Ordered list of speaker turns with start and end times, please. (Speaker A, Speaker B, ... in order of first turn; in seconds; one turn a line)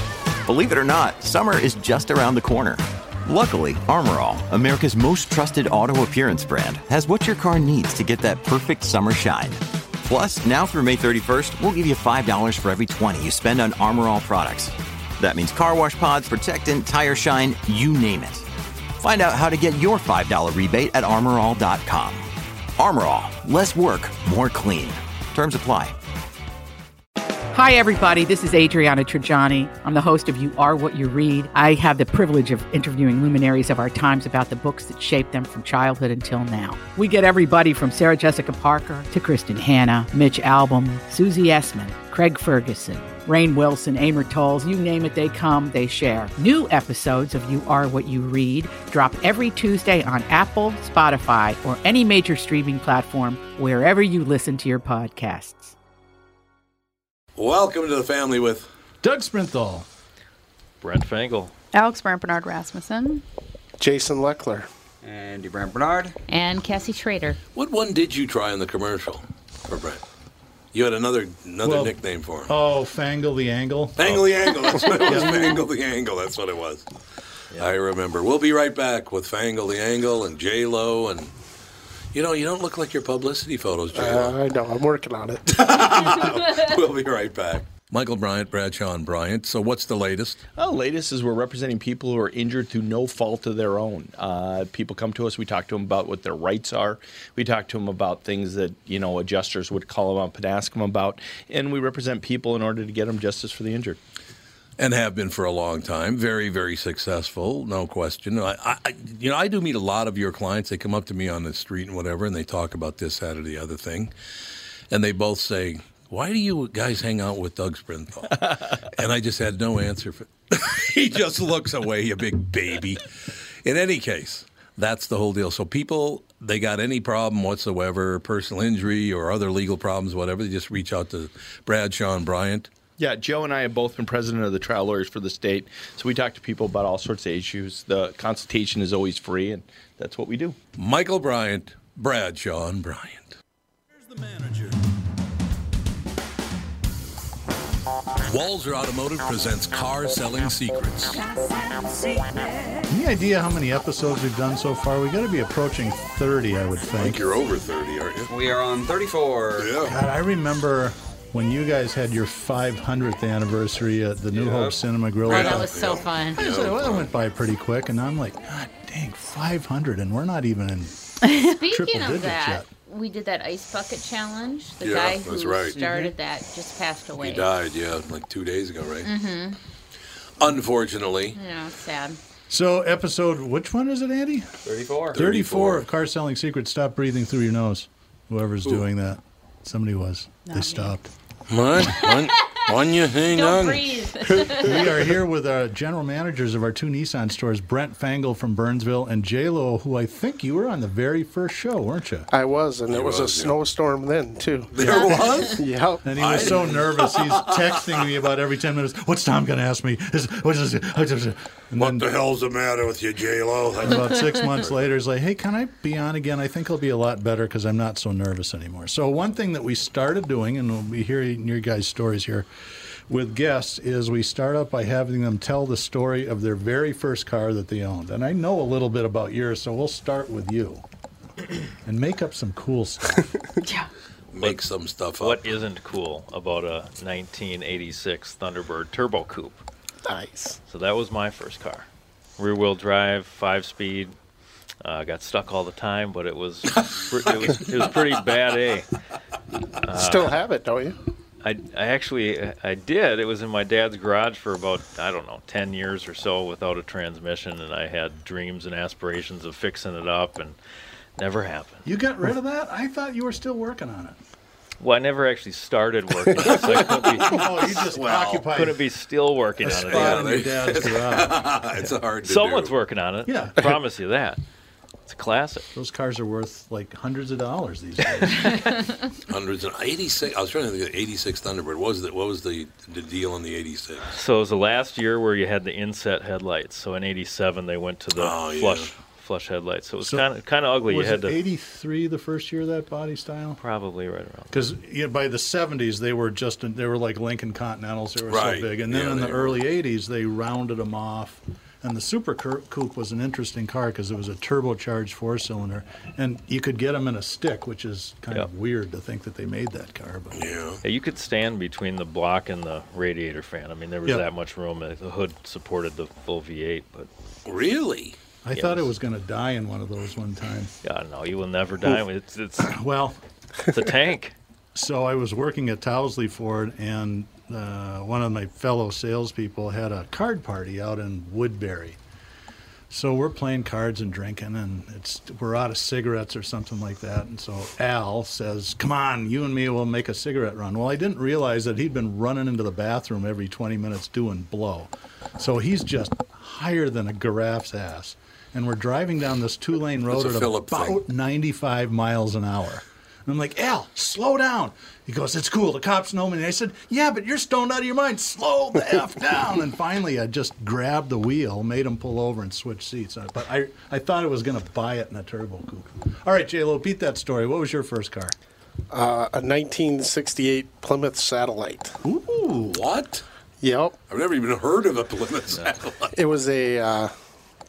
Speaker A: 0.5-18.5
Speaker A: 19.0-26.0
Speaker B: 27.5-55.7
Speaker C: 57.4-58.7
Speaker D: 59.0-59.9
Speaker E: 60.8-61.5
Speaker F: 61.7-63.2
Speaker G: 63.8-64.7
Speaker H: 65.0-66.2
Speaker I: 66.3-67.4
Speaker C: 67.5-70.0
Speaker C: 70.7-72.5
Speaker D: 71.6-72.0
Speaker D: 72.5-75.5
Speaker C: 74.0-76.9
Speaker C: 77.6-81.3
Speaker C: 82.1-84.4
Speaker G: 83.9-85.5
Speaker C: 85.5-90.4
Speaker J: 90.6-104.0
Speaker C: 104.8-114.1
Speaker C: 114.9-132.7
Speaker J: 133.0-140.6
Speaker C: 140.8-143.4
Speaker D: 144.0-144.8
Speaker C: 148.2-151.2
Speaker D: 152.9-157.2
Speaker C: 157.0-158.3
Speaker H: 158.3-159.7
Speaker C: 159.6-159.9
Speaker D: 159.8-165.7
Speaker H: 164.3-164.8
Speaker I: 165.2-166.4
Speaker C: 165.2-167.1
Speaker D: 166.4-170.9
Speaker F: 171.2-171.6
Speaker I: 171.5-177.5
Speaker D: 171.6-172.7
Speaker C: 174.8-175.9
Speaker H: 175.7-176.1
Speaker C: 177.2-179.1
Speaker I: 179.0-179.6
Speaker C: 180.4-181.4
Speaker I: 181.3-182.2
Speaker D: 182.5-184.5
Speaker H: 184.6-185.2
Speaker D: 185.1-191.1
Speaker C: 185.1-185.9
Speaker F: 190.5-191.0
Speaker C: 191.5-194.3
Speaker I: 193.3-194.9
Speaker D: 194.6-202.3
Speaker G: 202.3-204.7
Speaker C: 202.9-203.6
Speaker C: 204.7-205.6
Speaker D: 204.8-212.1
Speaker G: 205.4-206.1
Speaker C: 206.2-207.8
Speaker C: 211.8-214.7
Speaker D: 213.8-222.5
Speaker D: 223.1-230.8
Speaker D: 231.8-233.3
Speaker F: 233.6-233.9
Speaker C: 234.3-235.5
Speaker E: 234.4-234.6
Speaker E: 235.2-239.6
Speaker G: 240.1-240.6
Speaker E: 240.7-241.9
Speaker E: 242.4-244.1
Speaker E: 244.8-248.9
Speaker E: 249.8-250.4
Speaker G: 249.9-251.0
Speaker E: 251.4-260.6
Speaker E: 261.2-261.8
Speaker D: 261.9-264.2
Speaker E: 264.8-270.5
Speaker C: 266.4-267.3
Speaker D: 267.2-268.8
Speaker C: 267.8-268.4
Speaker D: 269.6-271.4
Speaker C: 269.7-272.8
Speaker E: 272.2-274.4
Speaker D: 273.3-273.8
Speaker E: 275.1-275.7
Speaker D: 275.7-278.6
Speaker C: 279.3-284.1
Speaker E: 284.0-291.4
Speaker C: 288.2-288.9
Speaker D: 290.0-290.3
Speaker D: 290.9-293.6
Speaker E: 293.6-294.7
Speaker D: 294.5-310.4
Speaker C: 298.3-299.6
Speaker C: 310.3-310.8
Speaker E: 310.8-317.1
Speaker C: 317.5-318.2
Speaker D: 318.4-320.7
Speaker E: 318.5-318.9
Speaker E: 320.8-322.8
Speaker D: 322.6-323.2
Speaker E: 323.7-324.4
Speaker D: 324.8-332.0
Speaker D: 332.9-368.4
Speaker C: 350.1-351.0
Speaker G: 368.9-371.9
Speaker D: 372.0-372.8
Speaker C: 372.7-373.2
Speaker G: 373.6-374.0
Speaker C: 374.1-376.1
Speaker G: 376.1-377.1